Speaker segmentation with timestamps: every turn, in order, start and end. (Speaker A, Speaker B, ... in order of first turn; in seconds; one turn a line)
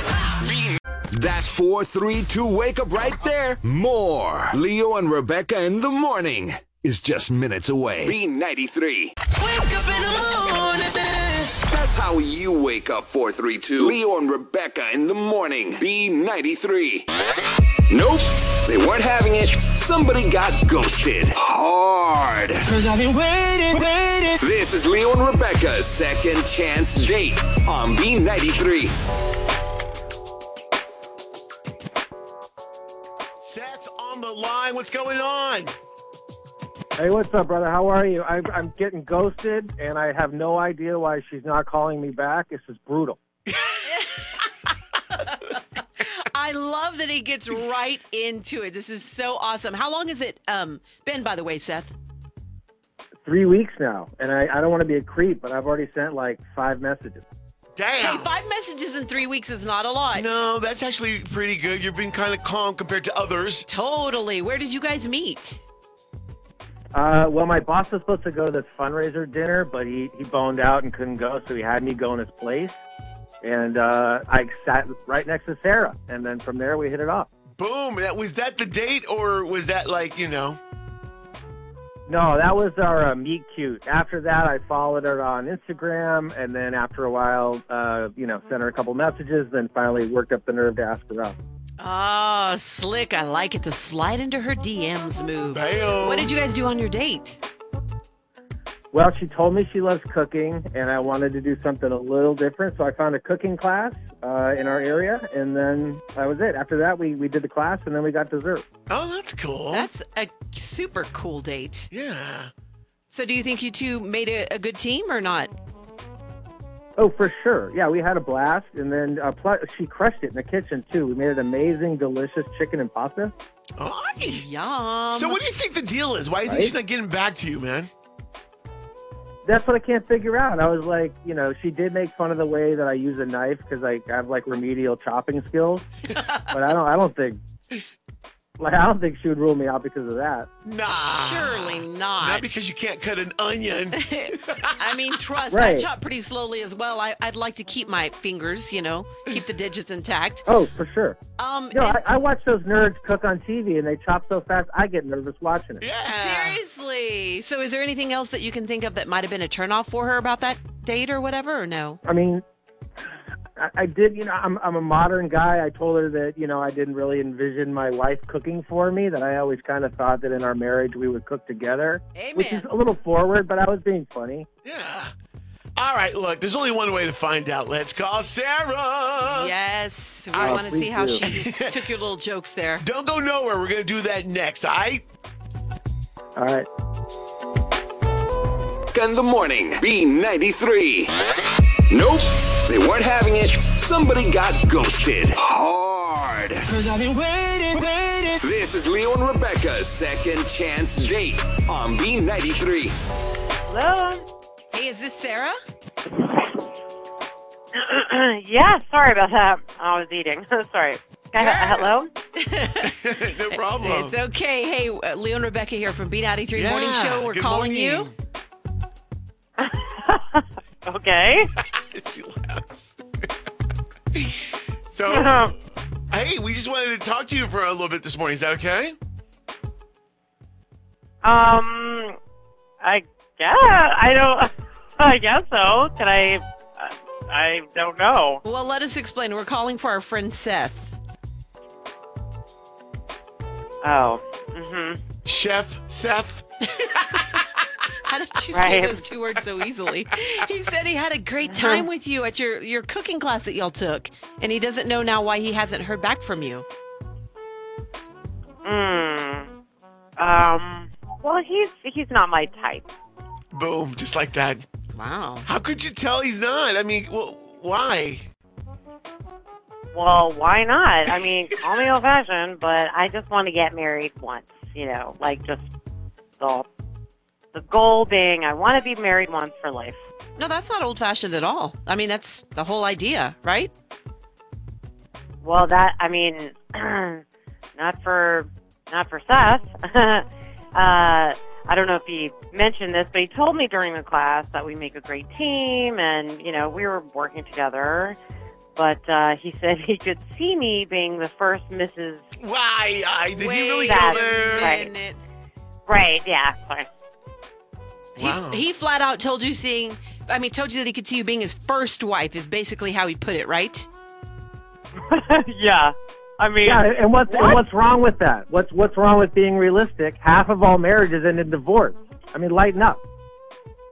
Speaker A: 0.4-9.2
Speaker B: 9.4-11.6
Speaker A: 11.7-17.1
Speaker A: 17.9-22.7
Speaker B: 22.6-24.4
Speaker A: 24.4-28.9
Speaker C: 33.4-35.7
Speaker D: 37.0-43.2
Speaker C: 43.5-43.8
Speaker E: 43.8-44.3
Speaker E: 45.1-51.9
Speaker D: 53.2-57.2
Speaker C: 57.8-58.3
Speaker E: 58.0-60.4
Speaker C: 60.1-63.7
Speaker E: 63.7-65.6
Speaker D: 66.9-72.8
Speaker D: 73.4-77.3
Speaker C: 77.6-80.6
Speaker D: 82.1-91.4
Speaker E: 91.8-97.4
Speaker C: 95.5-96.3
Speaker D: 98.9-108.7
Speaker C: 108.9-109.9
Speaker E: 109.7-111.9
Speaker C: 111.9-112.5
Speaker E: 113.1-115.5
Speaker D: 117.0-123.3
Speaker C: 123.8-124.5
Speaker E: 124.3-125.4
Speaker C: 125.1-127.9
Speaker D: 126.5-126.7
Speaker D: 129.4-135.9
Speaker E: 136.1-136.5
Speaker D: 136.5-137.4
Speaker D: 138.6-140.5
Speaker C: 140.7-144.8
Speaker E: 140.9-142.7
Speaker E: 143.9-150.5
Speaker D: 145.5-145.9
Speaker D: 150.5-151.2
Speaker E: 151.4-152.0
Speaker D: 151.7-155.8
Speaker C: 155.8-156.6
Speaker E: 156.1-162.0
Speaker D: 162.1-162.4
Speaker D: 163.6-174.5
Speaker E: 172.2-172.7
Speaker C: 174.7-175.1
Speaker C: 175.8-179.5
Speaker E: 179.2-182.8
Speaker D: 180.4-181.3
Speaker C: 181.2-181.8
Speaker C: 182.8-185.0
Speaker D: 186.4-186.7
Speaker A: 188.9-191.1
Speaker A: 191.9-196.7
Speaker B: 196.7-198.4
Speaker A: 198.4-203.0
Speaker F: 203.7-204.2
Speaker E: 204.7-205.6
Speaker F: 207.8-212.1
Speaker E: 211.4-218.1
Speaker C: 212.8-214.2
Speaker C: 216.6-218.1
Speaker F: 219.6-221.5
Speaker C: 221.6-223.0
Speaker C: 224.1-225.6
Speaker F: 225.1-225.5
Speaker C: 226.1-228.9
Speaker F: 231.2-232.2
Speaker F: 232.8-238.4
Speaker E: 238.4-240.9
Speaker F: 243.8-245.0
Speaker C: 245.2-246.5
Speaker E: 246.8-247.2
Speaker E: 248.1-256.6
Speaker F: 248.5-249.0
Speaker F: 251.5-251.9
Speaker F: 258.6-259.5
Speaker F: 260.2-262.9
Speaker C: 263.5-264.6
Speaker E: 264.9-265.5
Speaker C: 265.4-268.2
Speaker F: 269.9-275.7
Speaker C: 271.3-271.6
Speaker F: 276.4-276.7
Speaker F: 277.5-280.0
Speaker E: 280.4-283.7
Speaker F: 285.4-287.2
Speaker F: 287.8-298.2
Speaker F: 298.8-302.3
Speaker C: 302.4-304.8
Speaker E: 303.4-305.2
Speaker F: 303.9-304.9
Speaker F: 305.9-306.9
Speaker E: 308.2-313.9
Speaker C: 308.2-308.6
Speaker F: 315.0-317.6
Speaker D: 316.6-323.0